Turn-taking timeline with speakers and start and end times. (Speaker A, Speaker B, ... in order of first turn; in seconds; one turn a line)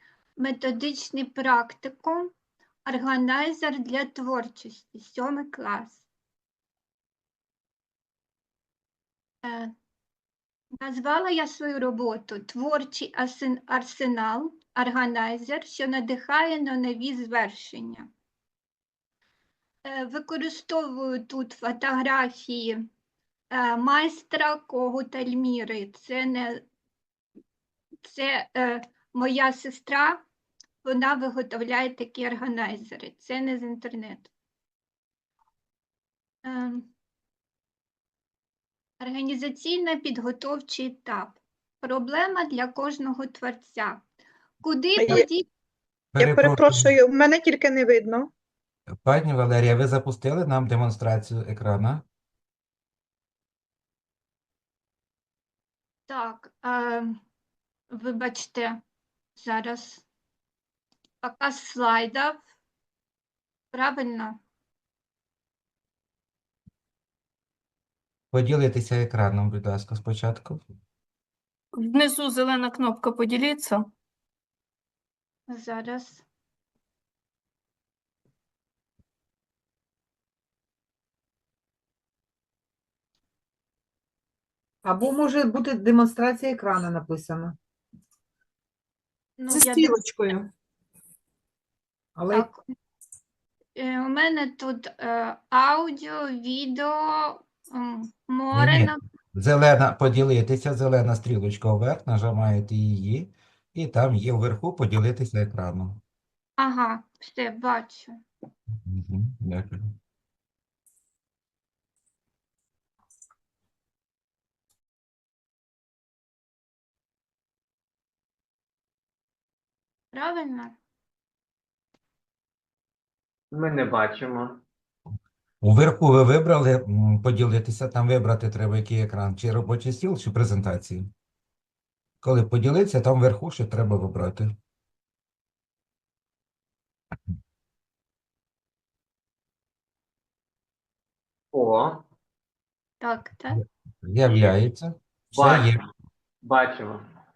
Speaker A: 0.4-2.3
Speaker A: 2.8-6.0
Speaker A: 9.4-9.7
Speaker A: 10.8-18.1
Speaker A: 19.8-22.9
Speaker A: 23.5-26.6
Speaker A: 28.0-30.2
Speaker A: 30.8-34.3
Speaker A: 36.4-36.9
Speaker A: 39.0-44.0
Speaker A: 44.6-45.5
Speaker B: 45.0-45.3
Speaker C: 46.1-46.9
Speaker B: 46.2-48.3
Speaker C: 49.0-52.0
Speaker A: 56.1-57.2
Speaker A: 57.9-58.8
Speaker A: 59.3-60.0
Speaker A: 61.2-62.4
Speaker A: 63.7-64.4
Speaker C: 68.3-70.6
Speaker D: 71.7-73.9
Speaker A: 75.5-76.2
Speaker E: 84.8-87.6
Speaker A: 89.4-89.9
Speaker E: 89.5-90.5
Speaker E: 92.2-92.5
Speaker A: 92.3-92.6
Speaker A: 93.8-99.0
Speaker C: 98.5-106.0
Speaker A: 106.6-108.2
Speaker C: 108.8-109.9
Speaker A: 120.1-120.8
Speaker F: 123.5-124.6
Speaker C: 125.6-131.1
Speaker C: 132.2-134.5
Speaker F: 141.5-142.1
Speaker A: 143.0-143.6
Speaker C: 144.0-145.8
Speaker F: 145.3-145.7
Speaker F: 146.4-147.0